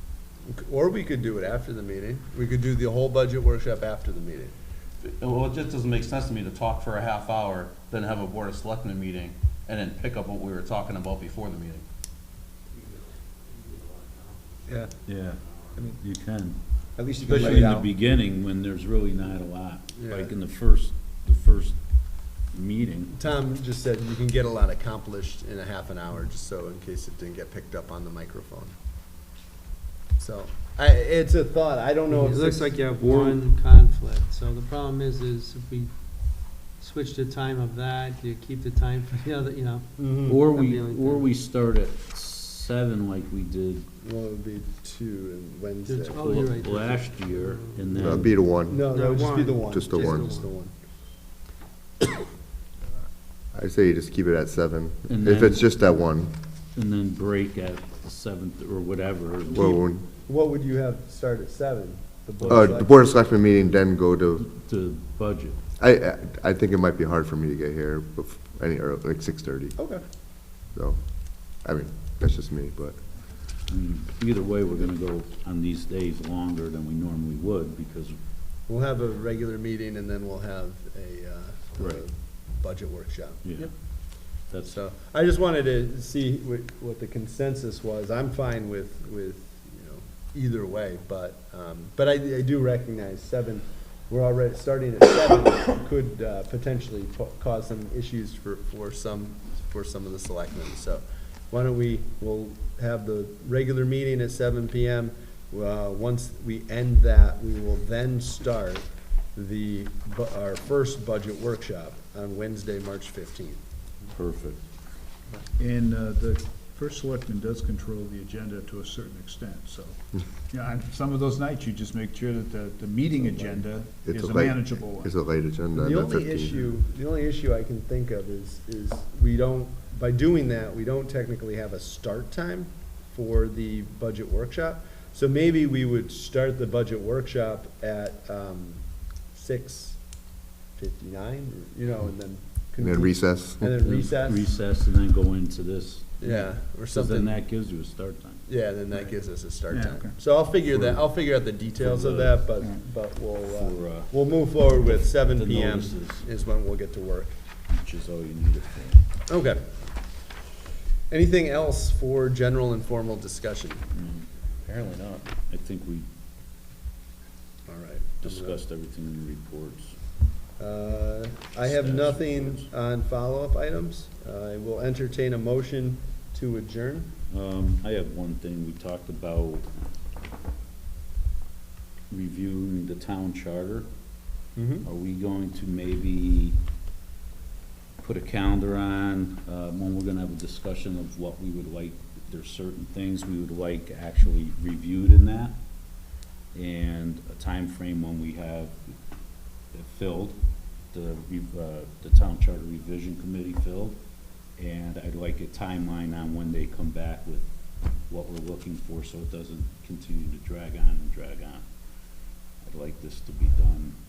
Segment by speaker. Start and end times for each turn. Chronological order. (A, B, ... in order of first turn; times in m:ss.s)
0:00.5-0:04.5 A
0:05.0-0:11.8 B
0:15.0-0:16.6 C
0:17.0-0:17.9 B
0:17.2-0:17.8 A
0:17.3-0:21.8 C
0:20.0-0:20.3 A
0:22.5-0:23.2 C
0:23.1-0:28.7 A
0:30.2-0:33.4 A
0:32.1-0:35.9 D
0:36.8-0:39.9 D
0:40.0-0:40.4 A
0:40.2-0:43.8 C
0:40.5-0:41.2 D
0:44.0-0:46.5 A
0:45.8-0:48.2 D
0:46.2-0:48.4 C
0:47.9-0:49.0 E
0:48.7-0:50.7 A
0:48.8-0:50.5 D
0:49.7-0:50.3 E
0:53.5-0:56.3 E
0:55.1-0:55.7 C
0:56.7-0:59.8 C
0:59.5-1:00.0 E
1:00.3-1:02.9 A
1:02.4-1:02.7 C
1:02.5-1:04.5 E
1:04.4-1:05.6 C
1:05.8-1:09.9 E
1:09.8-1:10.0 A
1:10.7-1:11.0 E
1:11.6-1:13.0 E
1:13.7-1:18.2 C
1:18.7-1:23.7 A
1:23.4-1:23.7 C
1:24.5-1:24.8 C
1:24.6-1:53.6 A
1:54.1-1:54.6 C
1:55.6-2:05.1 F
2:04.0-2:06.6 E
2:05.8-2:20.0 A
2:20.8-2:24.5 A
2:22.8-2:23.7 E
2:23.8-2:28.4 C
2:26.2-2:27.3 A
2:28.5-2:37.4 A
2:28.9-2:31.0 F
2:31.8-2:32.4 C
2:32.6-2:32.8 F
2:33.4-2:34.1 C
2:35.1-2:36.2 C
2:37.7-2:39.0 C
2:39.3-2:39.6 A
2:41.1-2:43.8 A
2:43.9-2:46.1 C
2:47.7-2:48.6 A
2:48.2-2:49.9 C
2:50.6-2:57.1 A
2:51.6-2:52.7 C
2:57.3-2:59.7 C
3:02.1-3:03.9 C
3:04.6-3:04.8 A
3:04.8-3:06.6 C
3:08.0-3:15.6 C
3:16.5-3:18.8 C
3:19.7-3:20.4 C
3:20.9-3:24.0 C
3:24.6-3:27.5 C
3:28.1-3:31.6 C
3:32.6-3:34.0 C